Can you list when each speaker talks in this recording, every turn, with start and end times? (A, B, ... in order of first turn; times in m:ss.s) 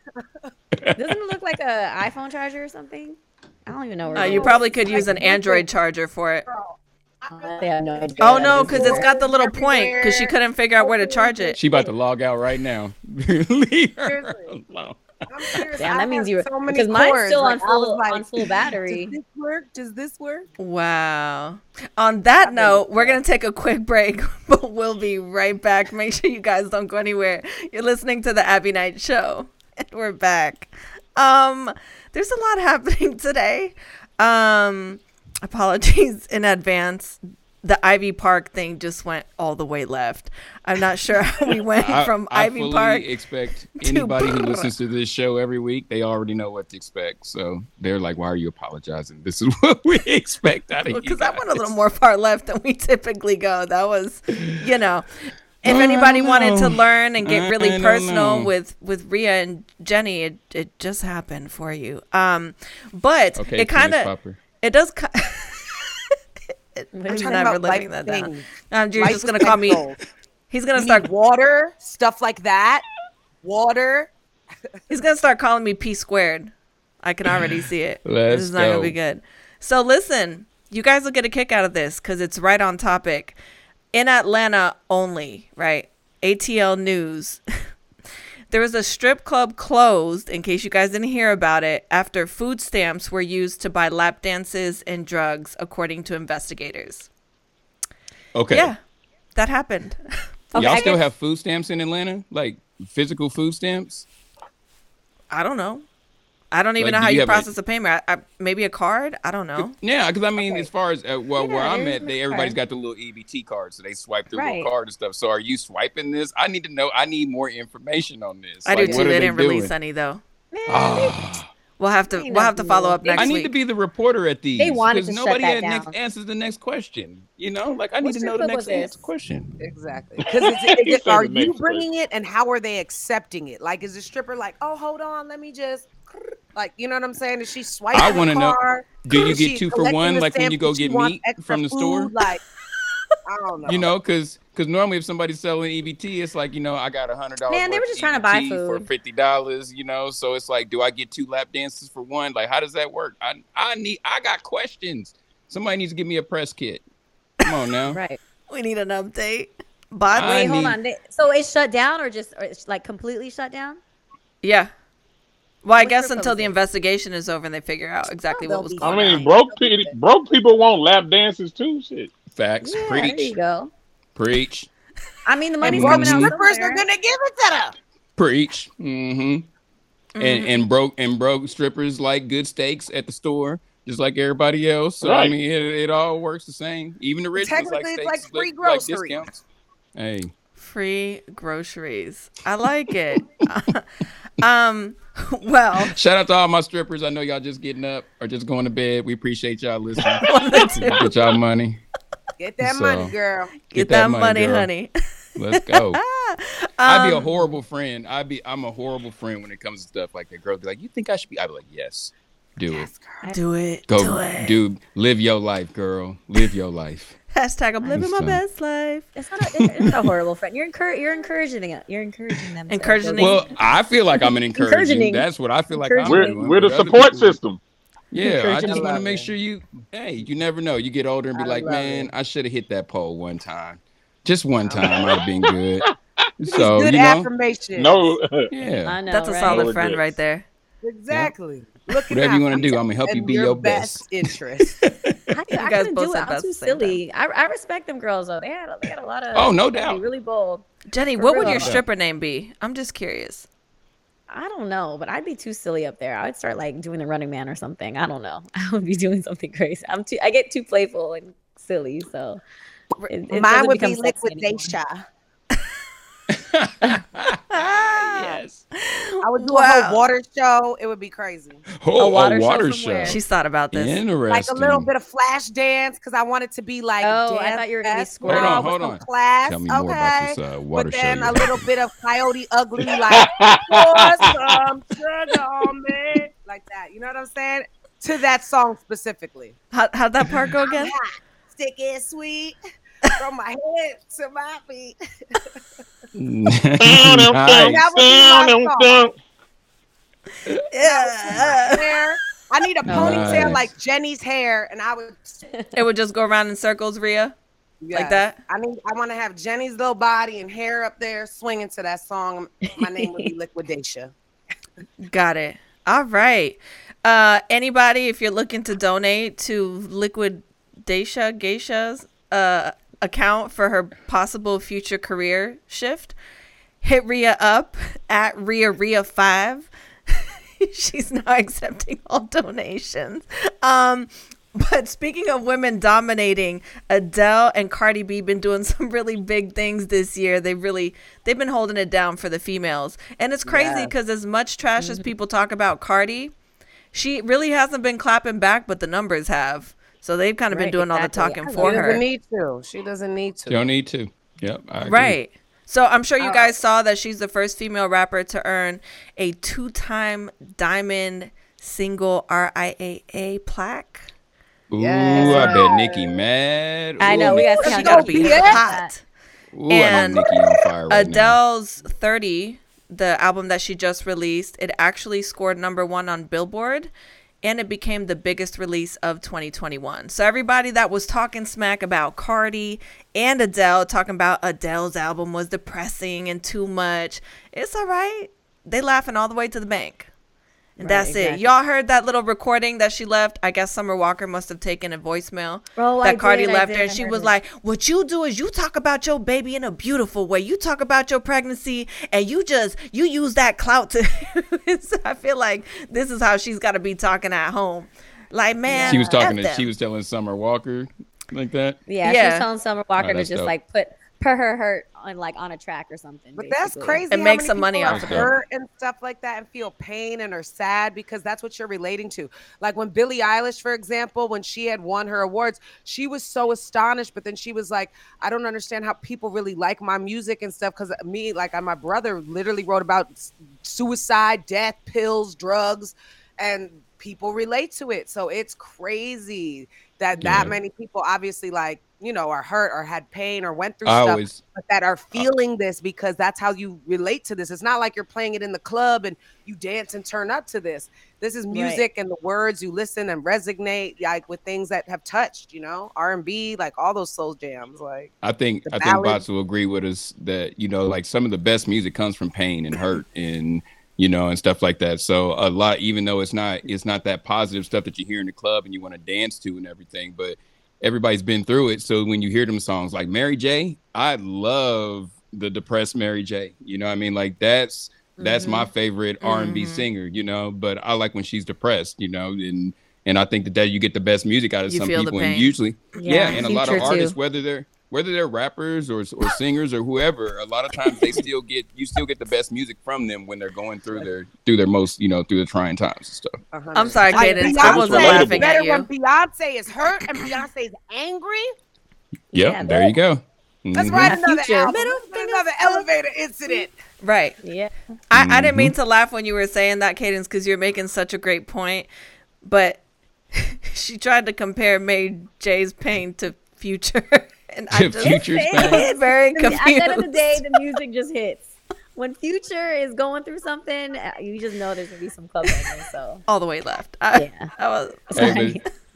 0:00.8-0:01.1 A
0:01.0-0:05.4 B
0:04.1-0:05.6 C
0:04.2-0:06.4 D
0:06.5-0:11.9 C
0:07.3-0:09.1 B
0:08.2-0:11.6 D
0:11.6-0:15.0 A
0:14.0-0:14.6 C
0:15.3-0:20.5 C
0:15.8-0:19.2 B
0:20.6-0:43.0 D
0:22.4-0:23.2 C
0:41.8-0:51.8 A
0:43.8-0:44.7 D
0:50.9-1:06.1 D
0:55.6-0:58.5 A
1:03.4-1:04.4 A
1:06.8-1:09.8 D
1:06.9-1:07.6 B
1:07.1-1:10.0 C
1:10.5-1:11.1 D
1:10.8-1:12.8 C
1:13.4-1:14.1 C
1:14.9-1:16.5 D
1:17.0-1:23.4 D
1:18.0-1:19.0 A
1:23.9-1:27.4 D
1:28.5-1:37.1 D
1:38.3-1:38.7 A
1:38.5-1:38.8 D
1:39.3-1:40.0 D
1:40.5-1:41.0 D
1:40.5-1:41.0 B
1:40.5-1:44.0 A
1:45.3-1:45.8 D
1:46.5-1:49.7 D
1:46.8-1:47.5 A
1:49.6-1:59.7 A
1:50.4-1:50.7 B
1:51.4-1:52.6 B
1:54.3-1:54.7 B
1:58.6-2:00.2 D
1:58.8-1:59.1 B
2:00.5-2:01.2 B
2:00.7-2:01.4 A
2:01.8-2:03.5 D
2:02.1-2:03.3 B
2:03.1-2:09.5 A
2:04.6-2:05.9 B
2:08.0-2:09.0 B
2:09.6-2:15.9 C
2:10.3-2:11.8 E
2:16.5-2:22.4 C
2:17.9-2:22.1 A
2:23.2-2:23.9 C
2:23.6-2:36.8 A
2:27.5-2:28.9 B
2:37.4-2:38.0 A
2:37.9-2:38.2 B
2:38.5-2:40.6 D
2:40.1-2:40.8 A
2:40.1-2:43.8 B
2:44.4-2:44.7 D
2:45.6-2:49.2 D
2:45.8-2:46.5 B
2:48.3-2:49.9 B
2:48.8-2:49.8 C
2:48.8-2:52.1 E
2:52.3-2:53.3 A
2:52.6-2:53.7 B
2:54.1-2:54.7 A
2:55.2-2:56.8 B
2:55.6-2:57.8 C
2:55.6-2:56.3 A
2:58.2-2:59.5 A
3:00.1-3:00.6 D
3:00.2-3:09.4 A
3:05.0-3:05.3 E
3:07.4-3:09.2 C
3:09.9-3:10.3 A
3:10.6-3:13.8 D
3:14.4-3:15.9 D
3:15.8-3:21.8 A
3:20.2-3:21.1 D
3:22.4-3:23.6 C
3:22.6-3:23.1 A
3:23.7-3:24.9 D
3:23.7-3:24.7 A
3:25.4-3:26.0 A
3:25.6-3:27.3 D
3:26.8-3:32.9 A
3:32.7-3:33.2 C
3:33.3-3:34.6 D
3:33.9-3:37.2 A
3:37.3-3:39.1 D
3:37.9-3:38.4 A
3:39.1-3:43.4 B
3:39.6-3:40.1 A
3:42.7-3:43.5 D
3:43.2-3:47.4 A
3:44.1-3:46.4 B
3:46.0-3:47.6 E
3:48.1-3:55.8 A
3:48.2-3:49.0 B
3:48.6-3:49.3 C
3:51.3-3:52.1 C
3:54.7-3:54.9 C
3:54.9-3:55.3 E
3:56.4-3:57.3 A
3:56.4-3:58.2 C
3:57.8-3:58.5 E
3:58.5-3:59.0 A
3:58.8-3:59.6 B
3:59.1-4:00.4 D
3:59.4-4:00.2 E
4:00.8-4:04.7 C
4:02.1-4:04.1 A
4:04.7-4:05.2 A
4:05.3-4:11.7 B
4:05.5-4:07.0 D
4:09.3-4:10.0 A
4:10.9-4:13.5 D
4:11.4-4:11.8 A
4:14.3-4:22.4 B
4:23.0-4:25.0 C
4:23.1-4:24.7 B
4:26.3-4:28.6 A
4:27.5-4:30.0 D
4:29.2-4:31.6 C
4:31.8-4:33.2 A
4:32.0-4:33.2 B
4:33.0-4:34.0 D
4:33.7-4:34.9 A
4:34.3-4:49.6 C
4:37.0-4:38.7 B
4:38.2-4:41.7 A
4:42.9-4:44.6 E
4:49.7-4:50.9 D
4:50.6-4:55.6 C
4:56.2-4:57.8 A
4:56.8-4:59.2 E
4:57.6-4:59.0 C
5:00.7-5:02.0 D
5:00.8-5:05.4 C
5:02.9-5:03.5 B
5:02.9-5:03.7 A
5:05.7-5:07.3 D
5:07.8-5:14.1 C
5:07.9-5:08.4 D
5:15.0-5:26.1 D
5:26.8-5:46.3 D
5:43.4-5:43.9 C
5:44.8-5:45.1 B
5:46.9-5:52.0 D
5:50.5-5:52.0 B
5:51.6-5:53.6 C
5:53.5-5:55.2 A
5:54.8-6:04.1 D
5:56.2-5:56.5 C
6:04.7-6:07.7 A
6:04.8-6:06.1 C
6:05.1-6:05.6 B
6:07.0-6:08.9 B
6:07.1-6:08.6 C
6:07.3-6:09.0 D
6:09.5-6:11.4 A
6:09.7-6:10.3 D
6:10.9-6:16.9 D
6:17.4-6:30.1 D
6:30.8-6:31.5 B
6:30.8-6:49.7 D
6:35.8-6:37.3 B
6:48.7-6:49.1 B
6:48.7-6:49.1 C
6:48.8-6:51.8 A
6:51.9-6:57.0 B
6:52.0-6:52.4 D
6:53.0-6:53.5 A
6:56.4-7:38.1 C
6:57.1-6:58.3 D
6:57.9-6:58.3 A
7:20.2-7:20.6 A
7:23.8-7:24.4 A
7:31.5-7:31.8 B
7:38.2-8:16.4 A
7:38.6-7:39.2 C
7:58.2-7:58.7 B
7:59.2-7:59.9 D
8:04.7-8:05.6 D
8:06.0-8:07.2 B
8:16.5-8:21.5 C
8:16.7-8:18.9 D
8:17.1-8:17.6 B
8:17.5-8:18.5 E
8:22.3-8:22.9 B
8:22.3-8:24.2 A
8:23.7-8:26.7 C
8:23.8-8:25.9 B
8:27.0-8:27.4 D
8:27.4-8:27.7 B
8:28.1-8:31.9 D
8:28.1-8:28.7 A
8:32.4-8:32.8 D
8:33.3-8:40.6 D
8:37.7-8:38.8 A
8:38.0-8:46.2 B
8:46.3-8:48.3 D
8:47.1-8:47.5 B
8:48.1-8:48.6 B
8:48.1-8:48.6 A